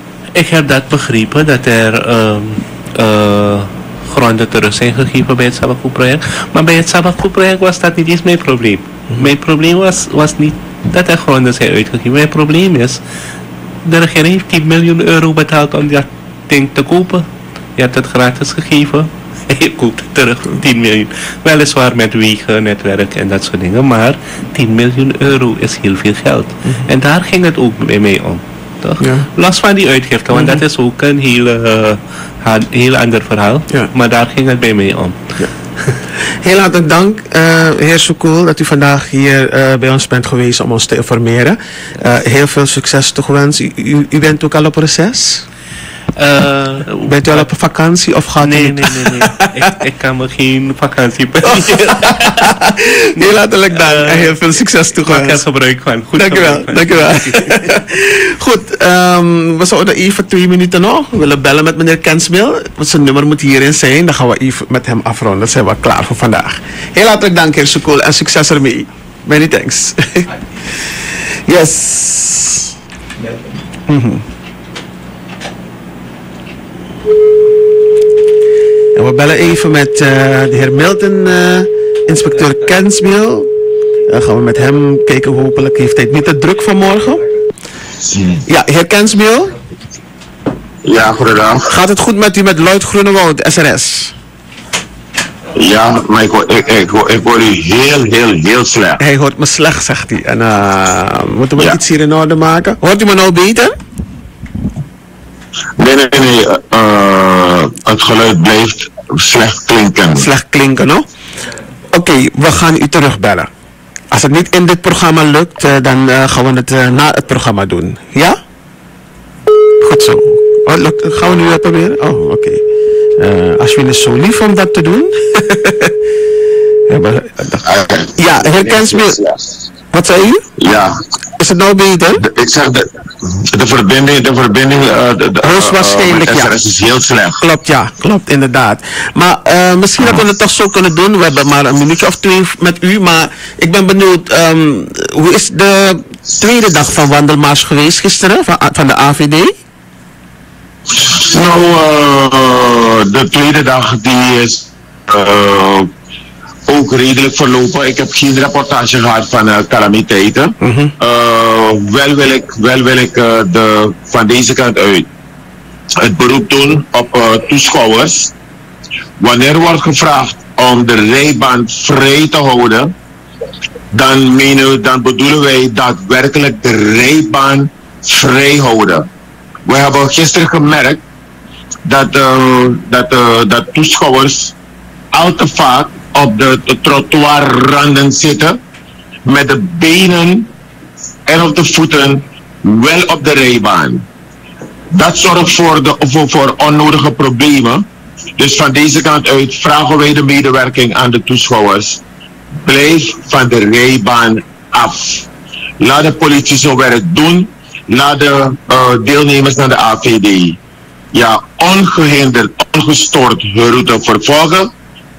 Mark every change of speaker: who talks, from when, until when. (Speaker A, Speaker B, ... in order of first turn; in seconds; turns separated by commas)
Speaker A: 0.3-13.0, Speaker A: 13.8-36.0, Speaker B: 29.0-29.3, Speaker B: 30.3-30.6, Speaker B: 36.4-45.5, Speaker A: 46.2-47.5, Speaker B: 47.1-49.6, Speaker A: 48.4-52.6, Speaker B: 51.5-55.4, Speaker A: 53.2-57.8, Speaker B: 56.2-70.4, Speaker B: 71.5-72.7, Speaker B: 73.9-74.2, Speaker B: 79.0-83.5, Speaker B: 84.1-87.3, Speaker C: 88.1-88.4, Speaker B: 88.5-89.5, Speaker C: 90.8-91.7, Speaker B: 91.7-94.1, Speaker C: 95.6-99.0, Speaker B: 99.0-103.8, Speaker C: 105.8-110.3, Speaker B: 110.2-111.1, Speaker B: 111.9-113.5, Speaker B: 114.1-118.4, Speaker B: 119.8-122.6, Speaker B: 123.2-126.0, Speaker B: 126.9-127.6, Speaker C: 127.6-129.6, Speaker B: 128.2-129.2, Speaker B: 129.9-130.5, Speaker C: 130.6-131.0, Speaker B: 131.4-132.2, Speaker C: 132.2-137.4, Speaker B: 135.4-136.5, Speaker B: 137.4-149.5, Speaker C: 150.9-155.9, Speaker C: 156.7-165.1, Speaker B: 160.6-160.9, Speaker C: 166.0-168.3, Speaker C: 169.2-172.9, Speaker C: 173.9-179.1, Speaker C: 179.7-181.0, Speaker C: 181.9-184.5, Speaker C: 185.1-188.6, Speaker C: 189.2-190.5, Speaker C: 191.3-194.1, Speaker C: 194.9-197.8, Speaker C: 198.4-202.0, Speaker C: 202.6-205.3, Speaker C: 205.8-210.6, Speaker C: 211.1-214.7